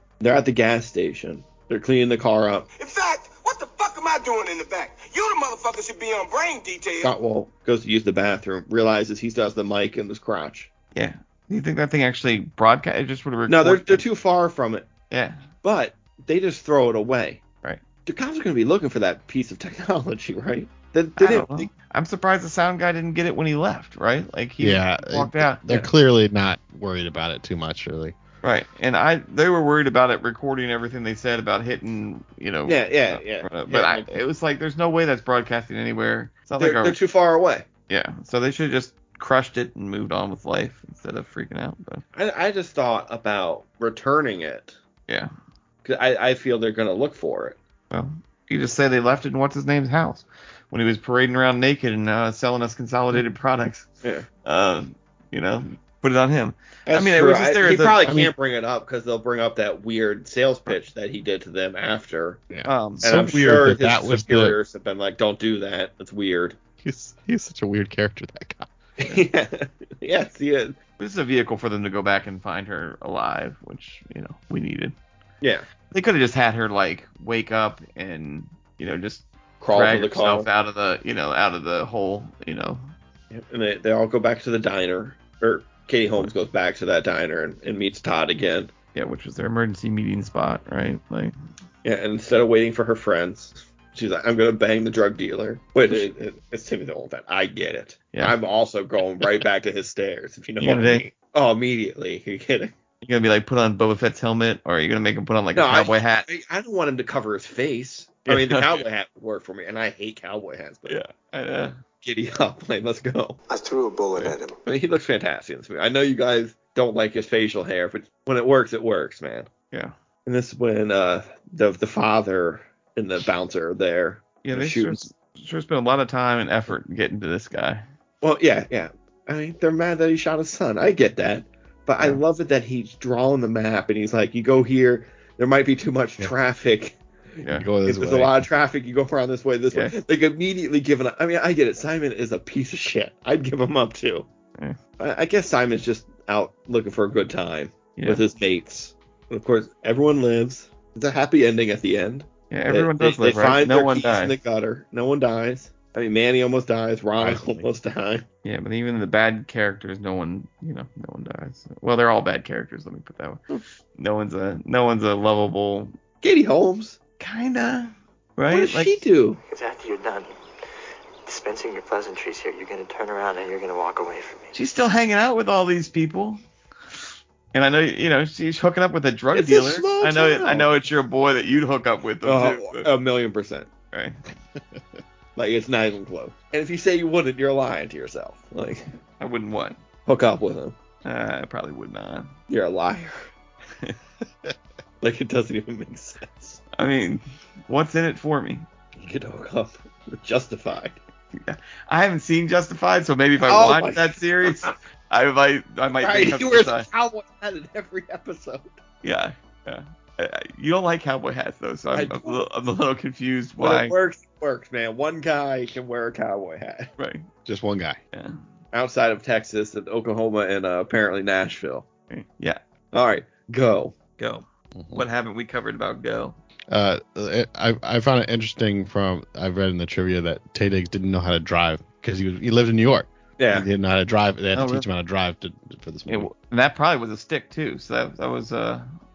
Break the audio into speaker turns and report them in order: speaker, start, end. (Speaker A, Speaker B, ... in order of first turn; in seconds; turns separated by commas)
Speaker A: 0.2-2.7, Speaker B: 2.8-7.1, Speaker A: 7.0-10.7, Speaker C: 10.9-14.0, Speaker A: 13.5-14.9, Speaker C: 15.1-15.4, Speaker A: 15.6-17.4, Speaker A: 18.1-21.7, Speaker C: 21.2-25.6, Speaker D: 24.6-28.1, Speaker C: 28.4-37.0, Speaker A: 32.6-34.1, Speaker A: 36.6-37.7, Speaker C: 37.9-42.0, Speaker A: 42.1-44.8, Speaker A: 45.8-47.6, Speaker C: 47.9-53.9, Speaker C: 54.4-58.0, Speaker A: 56.9-62.4, Speaker D: 58.0-58.3, Speaker D: 62.5-64.6, Speaker C: 62.6-63.1, Speaker A: 63.0-66.6, Speaker D: 66.8-68.7, Speaker A: 69.0-70.8, Speaker C: 71.0-74.9, Speaker C: 75.9-82.9, Speaker A: 79.6-80.5, Speaker A: 83.3-88.7, Speaker C: 88.9-91.3, Speaker A: 91.8-102.7, Speaker C: 100.6-101.0, Speaker C: 103.0-106.3, Speaker A: 105.5-111.0, Speaker C: 108.3-108.8, Speaker C: 110.9-111.8, Speaker A: 112.0-113.4, Speaker B: 113.5-114.6, Speaker A: 114.7-119.5, Speaker A: 120.2-125.0, Speaker C: 124.4-127.8, Speaker A: 128.2-137.0, Speaker D: 137.5-138.5, Speaker A: 137.8-144.2, Speaker A: 145.0-158.2, Speaker C: 147.9-148.2, Speaker C: 152.5-154.3, Speaker D: 157.2-157.7, Speaker C: 158.4-163.4, Speaker C: 164.0-165.9, Speaker A: 166.2-167.0, Speaker C: 167.2-169.0, Speaker A: 168.5-169.4, Speaker E: 169.5-170.3, Speaker E: 171.2-174.5, Speaker C: 174.5-176.4, Speaker C: 177.5-182.9, Speaker A: 179.3-180.7, Speaker A: 182.2-183.7, Speaker C: 183.9-184.2, Speaker A: 185.3-188.9, Speaker C: 189.2-189.8, Speaker A: 190.1-190.7, Speaker C: 191.0-192.3, Speaker A: 192.5-193.3, Speaker A: 195.0-196.6, Speaker C: 196.8-198.7, Speaker A: 199.0-201.0, Speaker C: 201.3-206.9, Speaker A: 203.4-204.7, Speaker A: 206.0-208.8, Speaker C: 209.0-213.9, Speaker A: 211.9-212.4, Speaker A: 213.6-216.9, Speaker C: 217.0-217.2, Speaker D: 217.4-218.0, Speaker A: 218.7-221.8, Speaker C: 222.1-222.6, Speaker A: 222.9-224.0, Speaker C: 224.2-226.3, Speaker D: 224.7-225.0, Speaker D: 226.7-236.3, Speaker A: 233.4-233.7, Speaker C: 234.5-234.8, Speaker C: 236.1-238.9